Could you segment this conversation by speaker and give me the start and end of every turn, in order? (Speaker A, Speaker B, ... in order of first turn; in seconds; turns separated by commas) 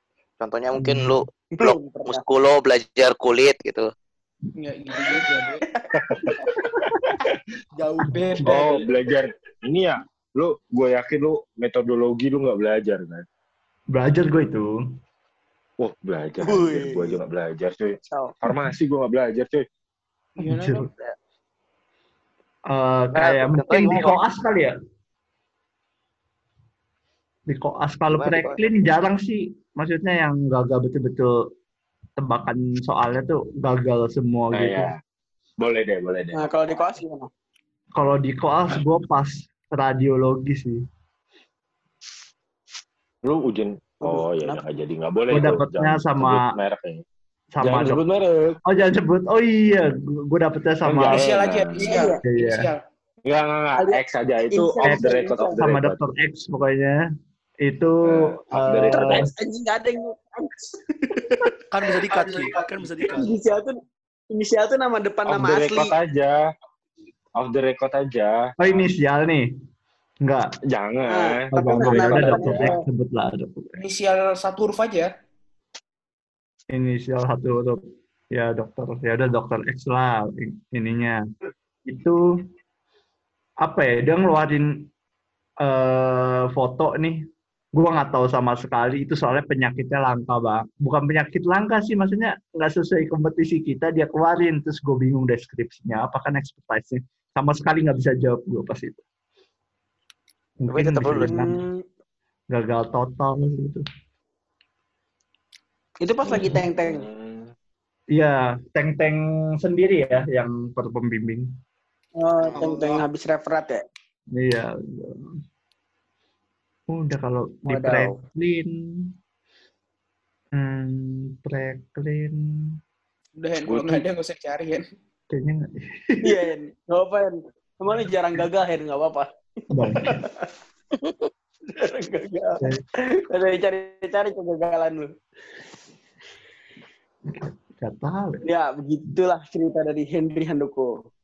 Speaker A: 0.4-3.9, Speaker B: 0.8-1.2, Speaker C: 1.6-2.2, Speaker D: 4.6-5.6, Speaker E: 5.9-6.4, Speaker B: 6.5-7.0, Speaker F: 7.7-8.9, Speaker B: 8.1-8.6, Speaker E: 8.4-13.2, Speaker B: 13.9-14.7, Speaker E: 15.8-19.6, Speaker C: 16.4-17.2, Speaker D: 20.4-20.9, Speaker B: 20.4-20.9, Speaker B: 22.7-24.7, Speaker A: 23.1-24.2, Speaker B: 27.5-31.3, Speaker A: 28.1-28.6, Speaker B: 32.2-34.9, Speaker E: 34.5-35.0, Speaker E: 35.6-36.5, Speaker C: 36.3-37.3, Speaker B: 38.0-40.8, Speaker E: 43.2-47.0, Speaker C: 44.0-44.6, Speaker B: 45.3-46.4, Speaker B: 47.5-48.0, Speaker E: 47.6-48.6, Speaker B: 48.7-51.2, Speaker E: 50.9-51.9, Speaker D: 51.1-52.8, Speaker C: 51.8-52.2, Speaker B: 52.2-52.6, Speaker E: 53.3-56.0, Speaker C: 53.8-55.6, Speaker B: 54.9-57.0, Speaker B: 57.6-59.3, Speaker E: 58.1-59.3, Speaker C: 58.9-61.5, Speaker F: 61.7-63.4, Speaker C: 63.1-63.8, Speaker C: 64.3-65.9, Speaker E: 65.3-66.4, Speaker E: 67.4-68.4, Speaker B: 68.6-69.5, Speaker B: 70.2-70.5, Speaker E: 70.7-72.7, Speaker C: 71.0-72.8, Speaker B: 71.5-73.7, Speaker D: 73.8-75.1, Speaker B: 76.7-81.2, Speaker B: 81.8-82.2, Speaker B: 83.6-84.9, Speaker B: 85.6-87.2, Speaker B: 87.7-99.0, Speaker B: 100.6-101.6, Speaker A: 100.7-101.5, Speaker C: 101.2-101.8, Speaker B: 102.5-103.8, Speaker C: 106.0-107.1, Speaker B: 106.3-106.6, Speaker E: 106.3-107.5, Speaker B: 108.1-111.5, Speaker C: 112.2-113.8, Speaker A: 112.4-113.0, Speaker B: 114.3-115.3, Speaker B: 116.9-119.1, Speaker C: 117.7-118.2, Speaker B: 120.5-122.7, Speaker D: 123.4-124.8, Speaker E: 123.7-124.0, Speaker B: 125.3-126.4, Speaker C: 126.2-130.5, Speaker B: 129.7-130.2, Speaker A: 131.0-131.3, Speaker C: 131.7-135.1, Speaker B: 137.3-138.4, Speaker C: 138.4-140.9